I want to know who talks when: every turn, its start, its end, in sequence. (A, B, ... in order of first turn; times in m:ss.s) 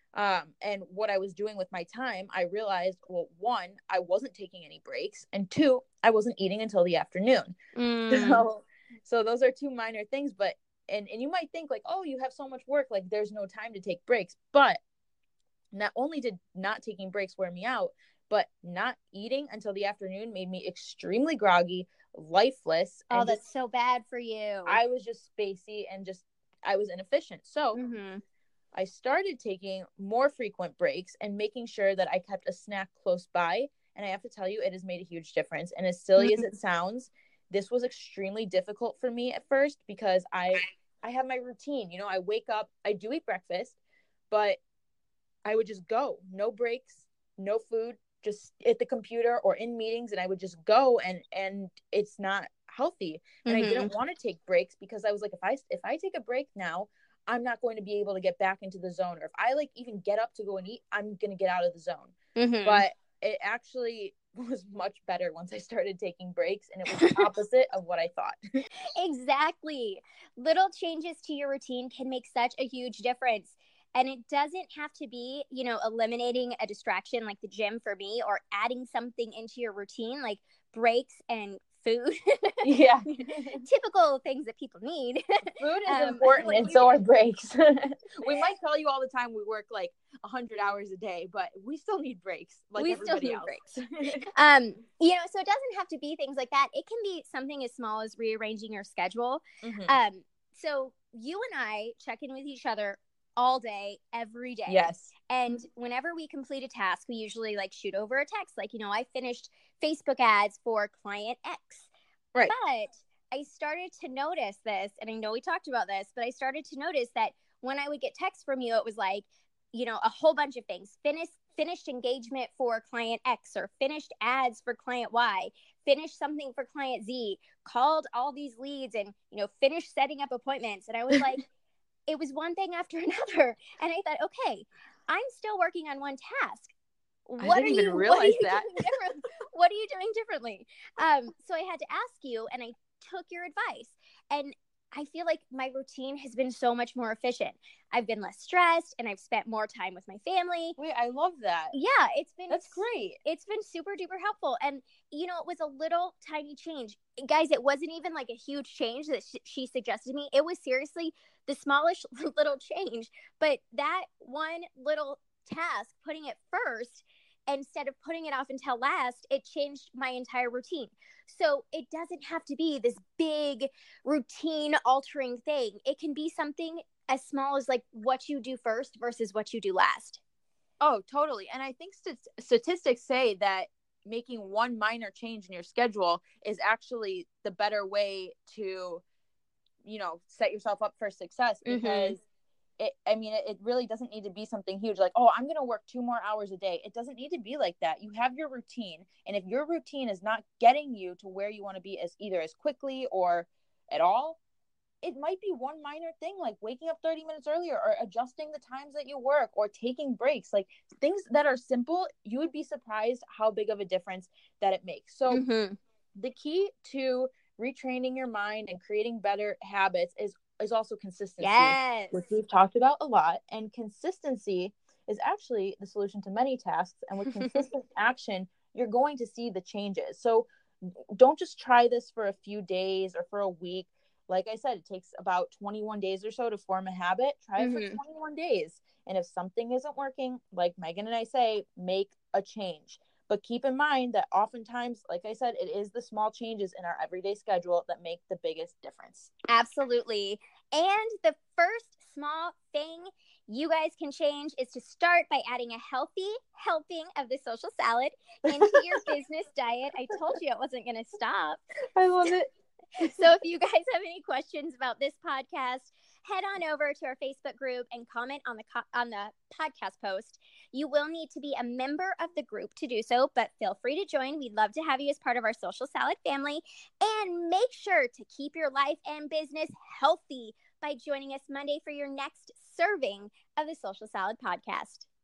0:00.1-0:07.6 A
0:07.7-0:08.4 B
0:08.1-0:14.8 A
0:15.7-0:23.4 A
0:23.1-0:24.8 B
0:24.6-0:27.8 A
0:27.7-0:28.2 B
0:28.7-0:43.8 A
0:36.2-0:36.4 B
0:44.3-0:44.6 A
0:45.4-1:08.6 A
0:53.4-0:53.9 B
1:02.4-1:02.8 B
1:06.9-1:07.3 B
1:08.9-1:22.9 B
1:22.6-1:23.6 A
1:23.6-1:26.9 B
1:25.6-1:34.2 A
1:32.8-1:33.6 B
1:34.3-1:51.9 B
1:39.6-1:39.9 A
1:44.7-1:45.1 A
1:52.5-2:11.4 B
2:12.1-2:16.7 B
2:17.3-2:30.8 B
2:17.4-2:18.8 A
2:30.8-2:31.7 A
2:31.7-3:00.2 B
2:32.5-2:33.2 A
3:00.8-3:09.0 A
3:09.8-3:12.2 A
3:11.6-3:12.2 B
3:12.8-3:24.4 A
3:25.0-3:35.4 A
3:35.3-3:35.8 B
3:36.2-4:09.3 A
3:41.4-3:42.3 B
3:47.3-3:47.6 B
3:57.6-3:58.0 B
4:09.5-4:21.6 B
4:18.5-4:19.1 A
4:21.9-4:23.2 A
4:23.0-4:45.1 B